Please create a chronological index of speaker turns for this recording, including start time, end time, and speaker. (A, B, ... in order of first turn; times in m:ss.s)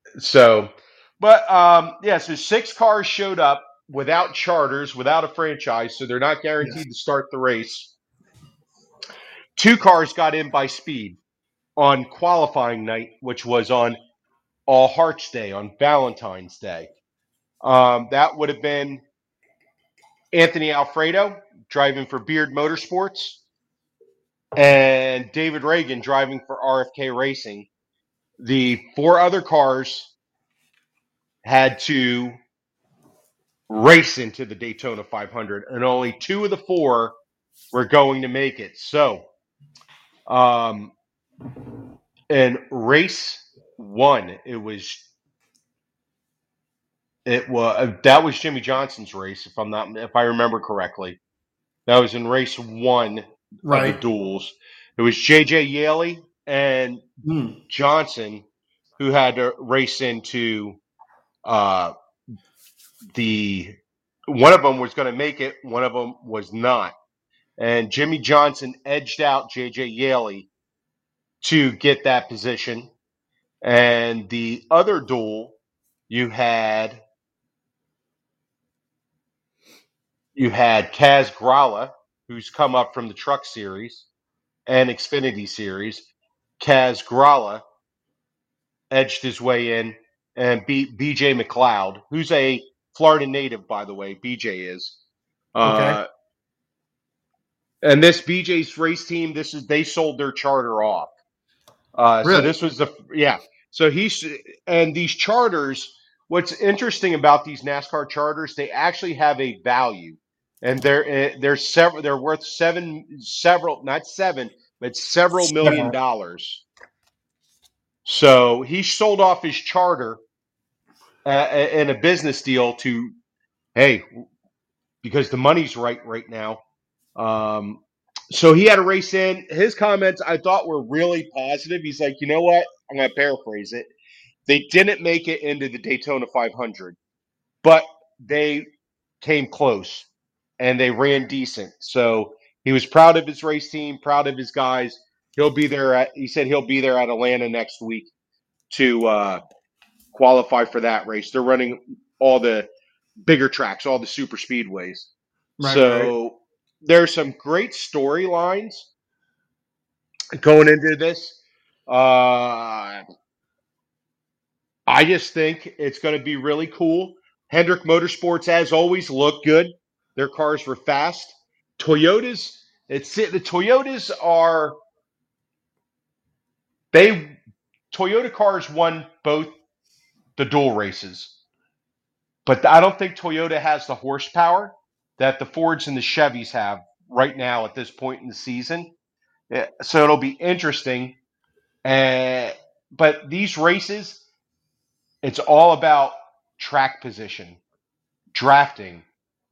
0:00.2-0:07.9 A
0:09.6-0:11.2 A
0:11.8-0:14.0 A
0:14.7-0:16.9 A
0:17.6-0:19.0 A
0:20.3-0:23.4 A
0:24.6-0:27.7 A
0:28.4-0:30.1 A
0:31.4-0:32.4 A
0:33.7-0:37.2 A
0:37.7-0:39.3 A
0:40.3-0:40.9 A
0:42.3-0:45.0 A
0:47.2-0:51.2 A
0:51.9-0:57.0 A
0:53.6-0:54.0 B
0:57.2-0:57.6 B
0:57.7-0:58.4 A
0:59.0-1:00.8 A
1:01.4-1:01.9 A
1:03.1-1:03.8 A
1:04.3-1:07.0 A
1:07.6-1:10.5 A
1:11.4-1:12.9 A
1:13.6-1:15.5 A
1:16.1-1:17.0 A
1:20.3-1:24.1 A
1:24.7-1:26.0 A
1:26.6-1:27.6 A
1:28.9-1:35.0 A
1:35.5-1:36.1 A
1:35.6-1:36.0 B
1:37.8-1:41.1 A
1:41.9-1:56.6 A
1:42.2-1:42.5 B
1:55.5-1:56.0 B
1:58.0-2:00.2 A
2:01.2-2:03.1 A
2:03.7-2:04.2 A
2:05.0-2:06.6 A
2:07.2-2:13.9 A
2:14.5-2:17.0 A
2:17.6-2:18.6 A
2:19.2-2:20.1 A
2:20.6-2:28.1 A
2:28.7-2:29.4 A
2:30.1-2:35.1 A
2:35.6-2:36.1 B
2:35.6-2:38.9 A
2:40.4-2:43.0 A
2:44.9-2:54.8 A
2:56.9-2:57.4 A
2:57.9-2:59.6 A
3:00.4-3:01.3 A
3:02.4-3:08.9 A
3:09.5-3:11.2 A
3:11.8-3:14.2 A
3:15.2-3:17.6 A
3:18.3-3:19.0 A